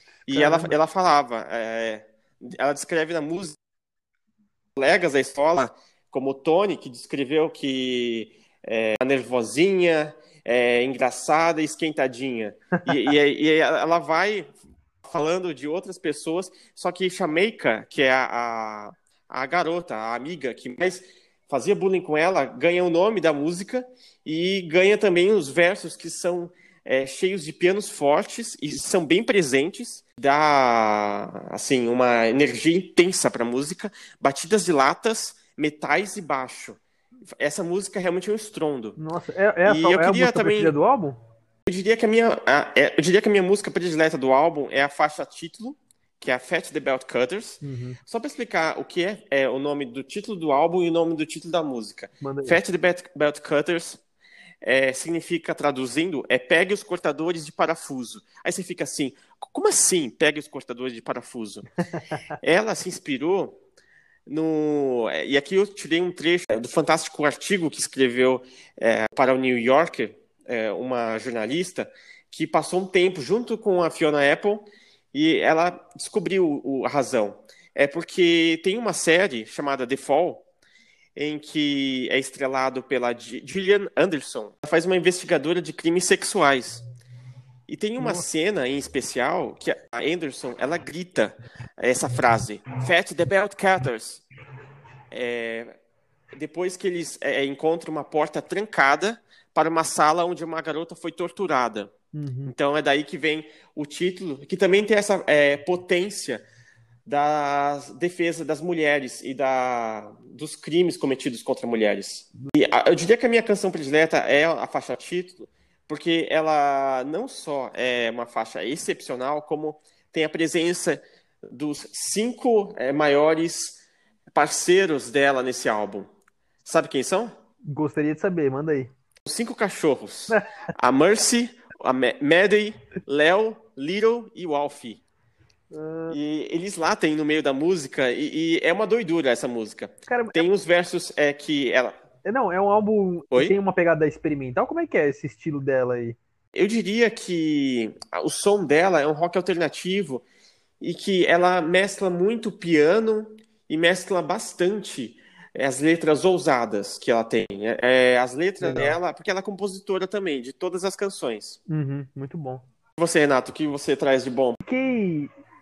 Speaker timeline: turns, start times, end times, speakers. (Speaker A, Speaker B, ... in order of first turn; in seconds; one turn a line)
Speaker A: 0.3-0.8
Speaker B: 0.3-3.6
Speaker B: 4.8-36.8
Speaker B: 37.4-39.0
Speaker A: 39.0-41.2
Speaker B: 39.7-40.8
Speaker B: 41.7-54.0
Speaker A: 47.6-48.0
Speaker A: 52.2-52.6
Speaker B: 54.6-61.7
Speaker A: 61.9-62.2
Speaker B: 62.4-63.6
Speaker B: 64.2-80.4
Speaker B: 81.2-86.8
Speaker B: 87.7-94.2
Speaker A: 88.0-88.2
Speaker B: 95.1-95.7
Speaker B: 96.3-101.9
Speaker A: 102.1-102.5
Speaker B: 102.5-106.4
Speaker B: 107.0-126.1
Speaker B: 126.7-127.3
Speaker A: 127.7-128.9
Speaker B: 129.2-135.0
Speaker A: 135.7-136.2
Speaker B: 136.1-141.9
Speaker A: 140.1-140.5
Speaker A: 142.2-146.2
Speaker B: 146.5-150.2
Speaker B: 150.8-161.6
Speaker A: 158.6-159.0
Speaker A: 161.7-162.6
Speaker B: 163.0-164.6
Speaker A: 164.6-165.3